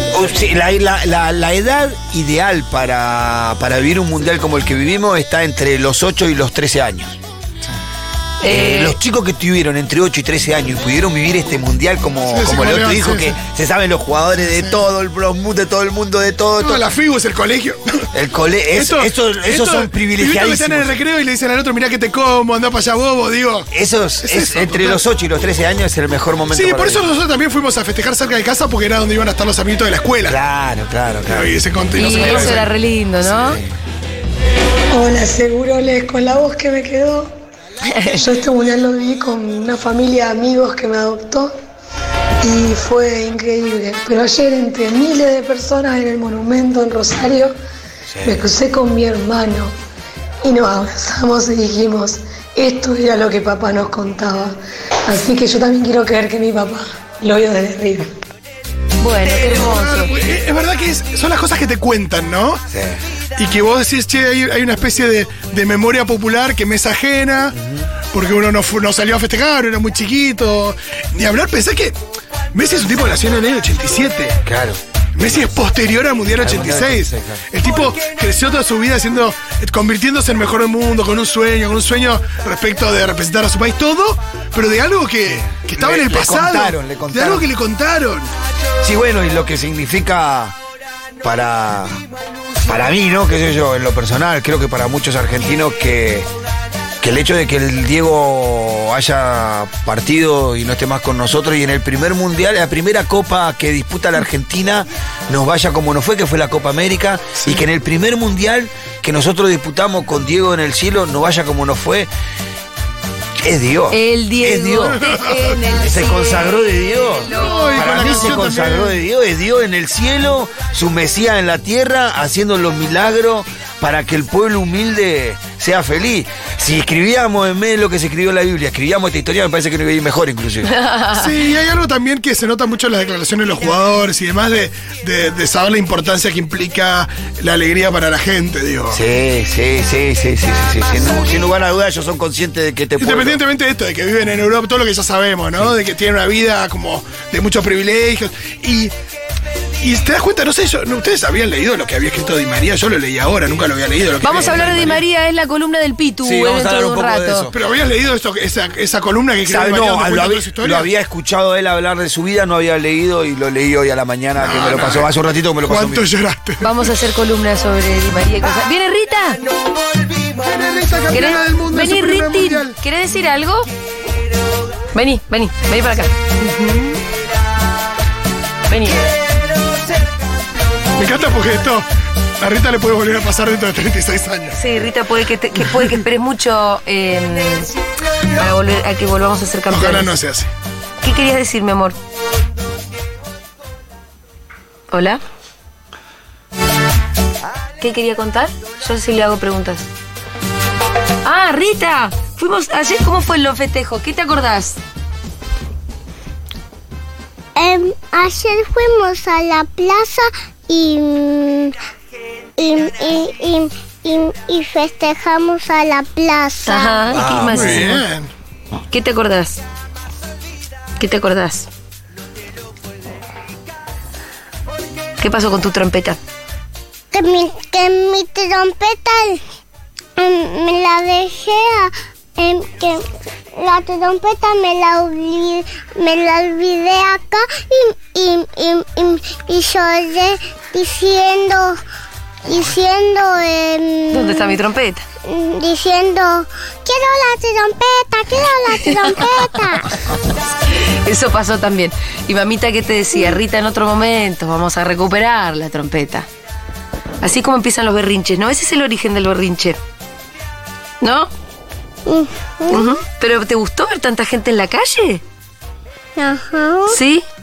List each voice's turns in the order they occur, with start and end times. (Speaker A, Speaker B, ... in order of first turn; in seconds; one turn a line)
Speaker A: 0.1-7.2
Speaker B: 8.4-9.0
Speaker A: 8.4-16.8
Speaker C: 12.3-13.3
Speaker C: 14.4-14.7
Speaker C: 16.6-18.1
Speaker A: 18.1-21.0
Speaker C: 18.7-23.7
Speaker A: 23.7-27.0
Speaker C: 24.2-25.0
Speaker C: 26.5-30.4
Speaker A: 30.2-32.7
Speaker C: 31.3-32.7
Speaker B: 32.0-33.6
Speaker A: 33.3-33.7
Speaker D: 34.9-37.3
Speaker B: 37.8-38.2
Speaker D: 38.1-41.5
Speaker D: 42.4-47.5
Speaker A: 48.1-48.5
Speaker D: 48.2-49.7
Speaker D: 50.4-54.5
Speaker D: 55.1-58.1
Speaker B: 59.0-60.1
Speaker C: 59.2-62.6
Speaker A: 62.7-63.0
Speaker C: 63.4-67.5
Speaker A: 67.5-67.9
Speaker C: 68.1-72.0
Speaker C: 72.5-74.4
Speaker A: 74.4-74.8
Speaker C: 75.2-88.3
Speaker A: 76.3-77.5
Speaker A: 85.2-87.5
Speaker A: 88.8-90.5
Speaker A: 91.2-92.0
Speaker A: 92.6-96.3
Speaker A: 97.0-112.1
Speaker A: 113.4-115.0
Speaker B: 113.9-118.4
Speaker C: 115.0-115.3
Speaker A: 115.6-130.7
Speaker C: 117.3-119.0
Speaker B: 130.6-131.3
Speaker C: 131.2-139.0
Speaker A: 138.9-143.4
Speaker C: 143.0-148.9
Speaker C: 149.8-155.0
Speaker A: 154.2-155.0
Speaker B: 154.2-157.5
Speaker A: 156.2-157.6
Speaker C: 157.5-160.9
Speaker A: 159.4-166.1
Speaker C: 164.4-165.1
Speaker C: 165.7-166.9
Speaker B: 166.6-169.4
Speaker C: 170.4-172.7
Speaker B: 171.1-173.7
Speaker B: 174.9-176.1
Speaker C: 176.4-177.0
Speaker B: 178.7-179.0
Speaker C: 180.9-181.8
Speaker C: 182.4-184.6
Speaker B: 184.5-187.7
Speaker B: 188.3-190.1
Speaker C: 189.7-190.5
Speaker B: 191.0-192.0
Speaker B: 194.9-195.2
Speaker B: 197.8-199.8
Speaker B: 201.2-204.8
Speaker E: 207.6-211.7
Speaker E: 212.6-217.1
Speaker B: 216.6-218.0
Speaker A: 217.1-217.9
Speaker C: 217.2-218.3
Speaker B: 218.9-219.6
Speaker B: 221.0-221.7
Speaker B: 225.2-226.2
Speaker E: 227.1-229.4
Speaker E: 230.2-241.8
Speaker E: 242.5-244.6
Speaker B: 244.1-245.0
Speaker E: 245.2-249.9
Speaker B: 250.8-256.3
Speaker B: 257.2-259.8
Speaker B: 261.0-261.3
Speaker E: 262.1-262.9
Speaker B: 262.7-265.2
Speaker E: 266.2-267.0
Speaker B: 266.9-267.2